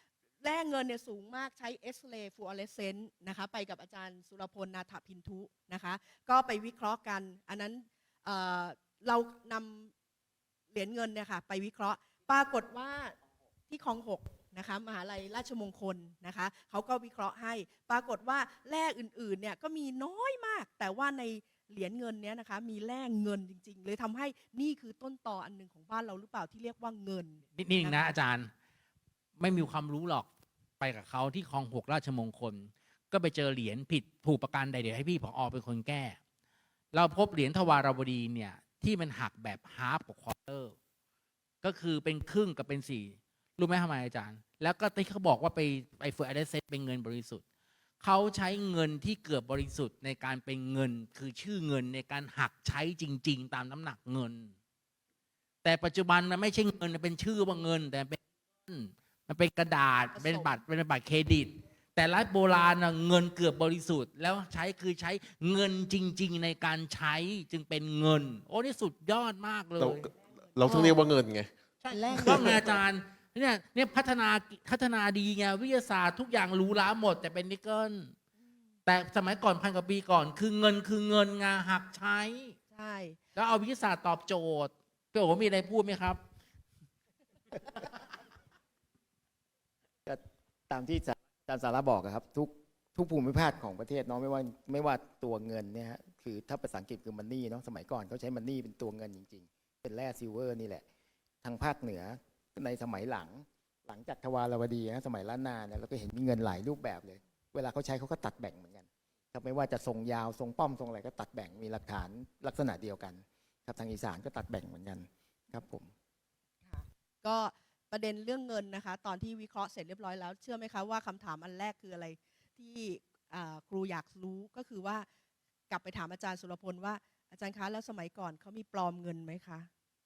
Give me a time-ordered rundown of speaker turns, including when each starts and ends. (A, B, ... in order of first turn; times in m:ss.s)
0:00.4-0:09.9 A
0:10.7-0:13.2 A
0:13.7-0:28.2 A
0:27.5-0:28.5 B
0:29.4-0:30.3 B
0:30.8-0:36.2 B
0:36.9-0:40.7 B
0:41.6-0:47.4 B
0:48.0-0:54.5 B
0:55.6-1:10.1 B
1:00.1-1:00.6 A
1:09.8-1:11.5 C
1:10.1-1:11.1 A
1:11.8-1:18.1 B
1:11.9-1:12.6 A
1:12.1-1:12.8 C
1:18.8-1:22.6 B
1:22.7-1:23.2 A
1:23.4-1:26.2 B
1:30.0-1:40.8 D
1:41.4-1:55.9 D
1:56.6-2:05.0 A
2:05.7-2:09.7 A